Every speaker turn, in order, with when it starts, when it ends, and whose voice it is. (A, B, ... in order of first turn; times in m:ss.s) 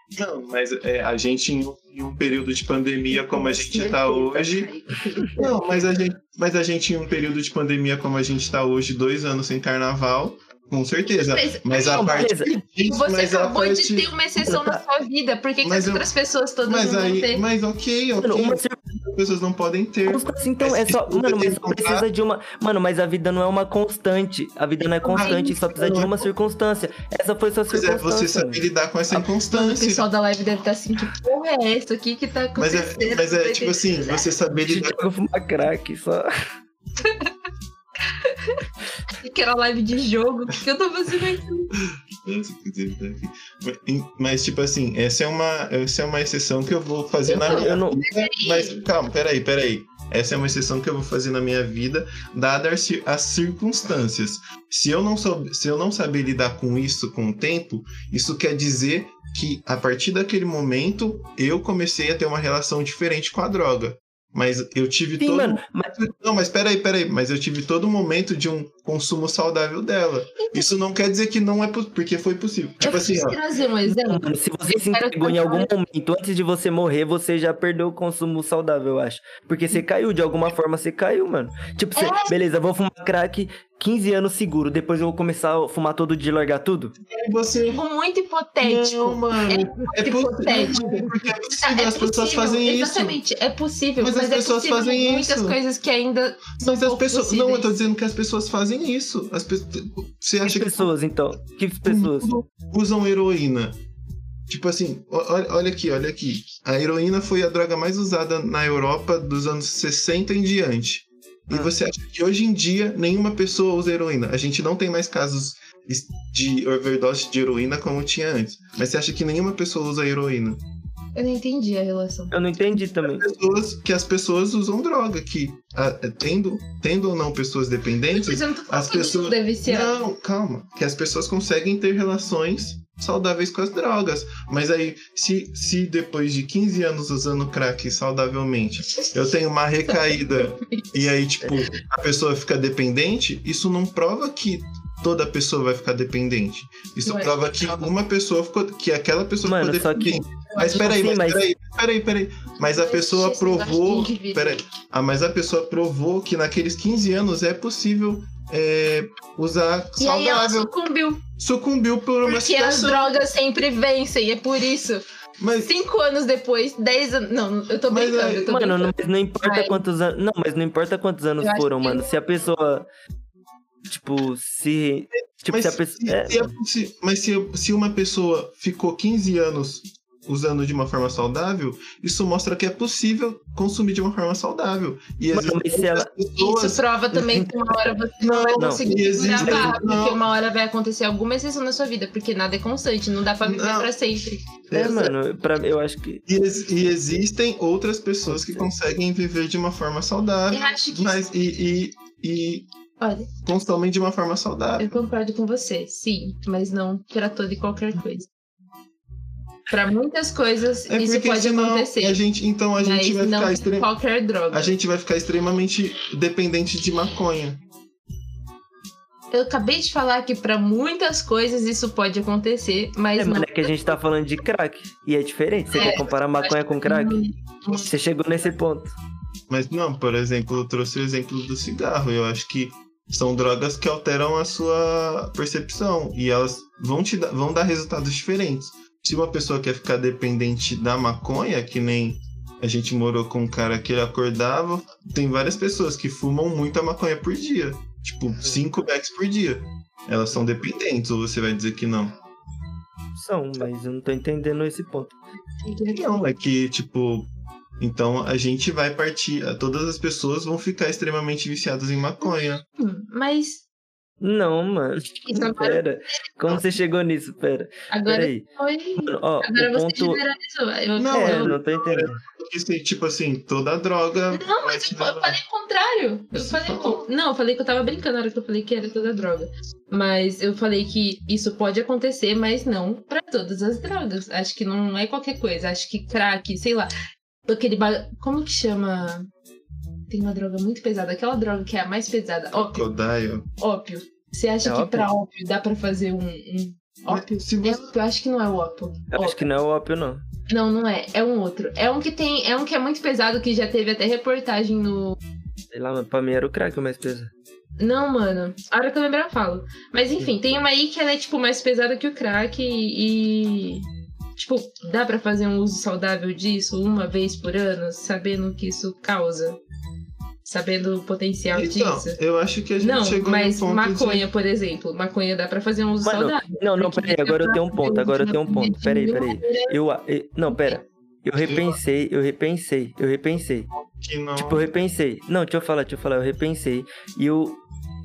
0:00.2-0:04.7 A
0:03.1-0:06.0 B
0:05.4-0:14.1 A
0:11.1-0:12.2 B
0:11.9-0:12.5 C
0:12.8-0:17.4 B
0:14.4-0:14.8 C
0:15.6-0:16.1 A
0:16.6-0:22.0 A
0:18.2-0:18.8 C
0:20.0-0:28.6 C
0:25.0-0:25.6 B
0:25.1-0:26.3 A
0:27.7-0:30.0 A
0:29.5-0:34.2 B
0:32.6-0:35.0 A
0:34.6-0:36.3 C
0:37.0-0:37.3 B
0:38.2-0:38.6 B
0:39.2-0:41.7 B
0:41.8-1:13.4 A
0:47.2-0:48.9 B
0:47.3-0:48.0 C
1:05.2-1:05.9 C
1:10.4-1:10.7 B
1:12.8-1:15.7 B
1:13.8-1:26.9 C
1:22.0-1:22.3 B
1:27.1-1:27.8 A
1:27.7-1:37.8 B
1:28.6-1:33.2 A
1:34.0-1:35.6 A
1:36.6-1:40.9 A
1:40.4-1:42.3 C
1:41.8-1:43.8 A
1:44.5-2:00.6 A
2:01.1-2:02.3 B
2:02.3-2:03.3 C
2:03.0-2:40.7 A
2:08.1-2:09.9 B
2:19.8-2:21.0 B
2:27.0-2:27.9 B
2:29.4-2:31.4 C
2:32.6-2:34.7 B
2:40.0-2:41.2 B
2:41.4-2:43.1 A
2:42.2-2:45.0 B
2:45.4-2:45.7 A
2:45.6-2:49.8 B
2:47.9-2:48.5 A
2:48.5-2:52.8 C
2:51.4-2:52.1 B
2:53.8-2:56.5 C
2:55.4-3:06.8 A
3:05.3-3:06.1 C
3:06.4-3:14.4 B
3:07.1-3:07.9 C
3:08.2-3:10.2 A
3:08.6-3:08.8 C
3:09.4-3:09.7 C
3:13.4-3:13.9 A
3:14.7-3:15.1 A
3:14.7-3:16.2 C
3:16.3-3:22.7 A
3:18.2-3:18.7 C
3:20.5-3:21.2 B
3:23.0-3:23.3 B
3:23.4-3:25.0 A
3:24.8-3:28.3 B
3:29.7-3:32.2 B
3:30.9-3:33.9 A
3:32.8-3:34.7 B
3:34.5-3:37.6 A
3:39.3-3:44.0 B
3:43.2-3:47.2 C
3:45.7-3:47.9 B
3:47.7-3:48.9 C
3:49.5-4:12.2 A
4:13.2-4:15.1 C
4:15.6-4:16.2 B
4:15.9-4:17.3 A
4:17.8-4:22.6 A
4:22.2-4:23.6 B
4:24.2-4:28.4 C
4:25.2-4:25.8 B
4:27.9-4:31.6 B
4:29.0-4:30.2 C
4:31.0-4:35.4 A
4:31.1-4:32.2 C
4:34.3-4:46.9 B
4:36.3-4:37.0 A
4:47.5-4:49.3 B
4:50.1-4:52.9 B
4:52.5-4:53.4 A
4:53.6-4:59.4 B
4:54.6-4:55.1 C
4:57.1-4:57.9 A
4:59.1-5:00.2 C
5:00.5-5:05.2 B
5:05.7-5:07.3 C
5:07.8-5:19.6 B
5:20.4-5:22.2 B
5:21.5-5:24.2 A
5:22.8-5:29.7 B
5:26.0-5:33.7 C
5:30.5-5:30.8 B
5:31.4-5:31.8 A
5:33.7-5:34.7 A
5:34.4-5:37.6 C